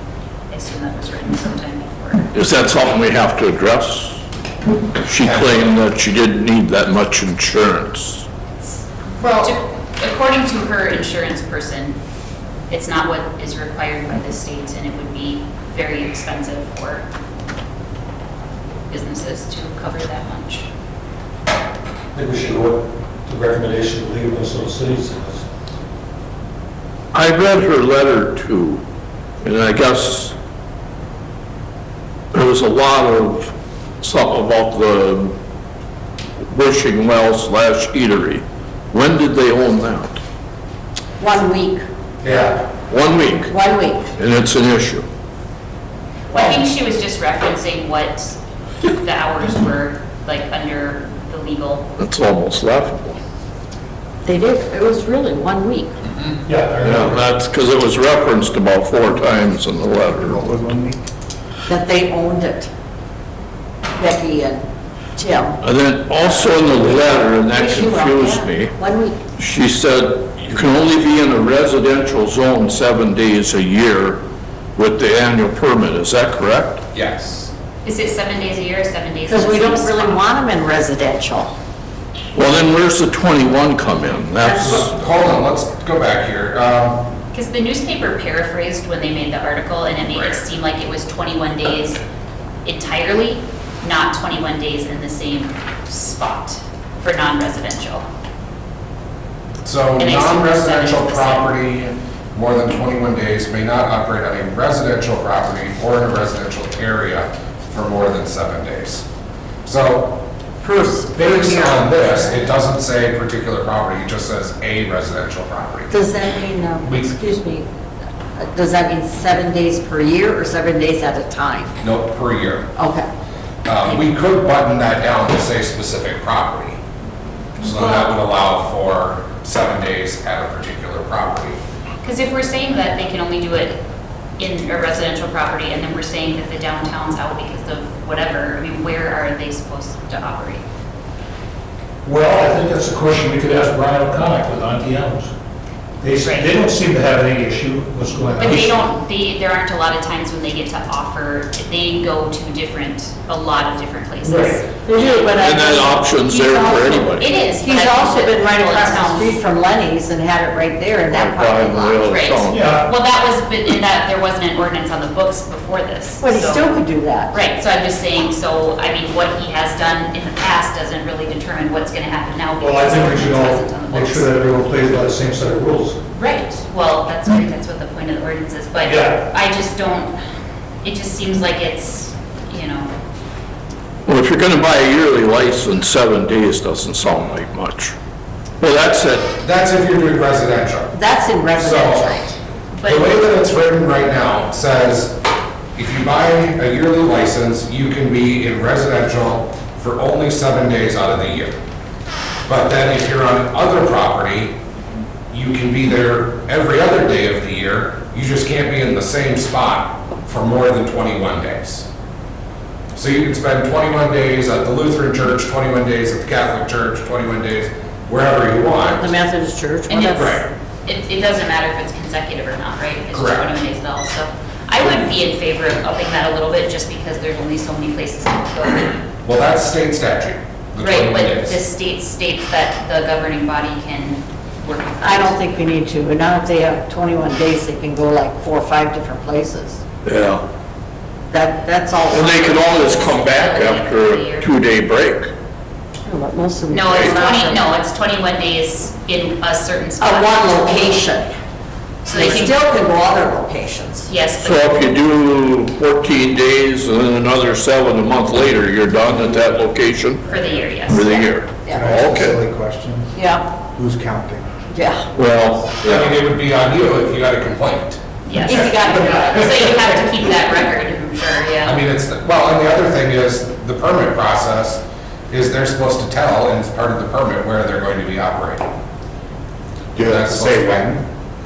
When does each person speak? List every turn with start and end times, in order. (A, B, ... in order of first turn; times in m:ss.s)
0:00.5-0:02.3 A
0:02.3-0:04.2 B
0:05.0-0:08.2 B
0:05.2-0:05.7 C
0:09.2-0:09.5 C
0:09.4-0:12.0 A
0:12.7-0:17.0 A
0:18.9-0:20.7 A
0:22.1-0:25.5 D
0:27.1-0:28.8 B
0:29.4-0:30.3 B
0:32.3-0:35.3 B
0:36.4-0:40.2 B
0:41.2-0:41.8 E
0:42.2-0:42.6 C
0:42.9-0:43.6 B
0:43.5-0:44.1 E
0:44.2-0:45.1 B
0:46.3-0:51.9 A
0:46.3-0:46.6 E
0:52.0-0:53.2 B
0:54.2-0:56.0 E
0:56.4-0:57.3 D
0:56.8-1:00.4 B
1:00.0-1:01.0 F
1:01.6-1:02.7 E
1:03.9-1:04.6 E
1:05.2-1:05.6 E
1:05.6-1:08.7 B
1:06.4-1:09.2 E
1:09.4-1:14.2 B
1:14.8-1:16.8 B
1:16.9-1:17.5 C
1:17.8-1:20.2 A
1:19.3-1:21.5 E
1:22.3-1:24.9 B
1:24.4-1:24.8 E
1:24.5-1:27.1 C
1:27.3-1:32.0 A
1:32.6-1:38.0 A
1:39.6-1:49.0 C
1:40.0-1:41.5 A
1:49.6-1:50.2 C
1:50.6-1:52.4 E
1:51.2-1:55.9 C
1:55.9-1:57.6 E
1:56.8-1:57.1 C
1:58.4-2:01.7 E
2:01.8-2:02.7 C
2:02.8-2:03.1 E
2:03.6-2:06.8 C
2:07.6-2:11.6 C
2:07.6-2:08.1 A
2:12.0-2:13.8 A
2:14.4-2:20.6 A
2:22.0-2:25.3 D
2:26.0-2:28.8 D
2:26.2-2:26.5 A
2:28.4-2:39.4 A
2:34.2-2:34.6 D
2:34.8-2:36.0 E
2:34.9-2:37.3 B
2:37.5-2:42.1 E
2:41.1-2:42.6 B
2:42.1-2:46.8 A
2:42.5-2:42.9 D
2:46.2-2:47.4 E
2:47.3-2:54.3 A
2:52.6-2:56.0 D
2:56.1-3:00.2 A
2:58.8-2:59.3 D
3:00.8-3:02.9 A
3:04.0-3:07.9 B
3:08.6-3:09.3 B
3:09.4-3:10.9 C
3:10.9-3:12.4 E
3:11.6-3:12.2 C
3:12.7-3:13.2 A
3:12.8-3:15.2 C
3:15.8-3:21.6 C
3:22.4-3:24.6 C
3:25.3-3:31.9 C
3:32.9-3:39.1 C
3:38.8-3:40.4 E
3:39.9-3:49.0 A
3:40.1-3:40.4 C
3:43.1-3:43.5 C
3:49.2-3:51.6 C
3:50.8-3:55.3 A
3:55.0-3:59.8 E
4:00.0-4:00.4 B
4:01.3-4:03.1 E
4:02.1-4:05.3 B
4:02.8-4:04.5 A
4:06.0-4:07.6 E
4:06.7-4:10.9 A
4:10.0-4:11.3 E
4:12.0-4:12.6 A
4:12.1-4:14.1 E
4:14.1-4:14.9 A
4:14.4-4:20.3 B
4:20.2-4:21.0 A
4:20.8-4:22.4 B
4:21.0-4:22.0 E
4:21.7-4:23.1 F
4:23.1-4:23.4 E
4:23.7-4:24.5 F
4:24.7-4:25.1 E
4:25.1-4:26.1 B
4:25.8-4:28.0 C
4:28.2-4:31.8 A
4:28.4-4:29.6 E
4:31.6-4:38.7 C
4:39.9-4:41.0 F
4:40.0-4:40.9 C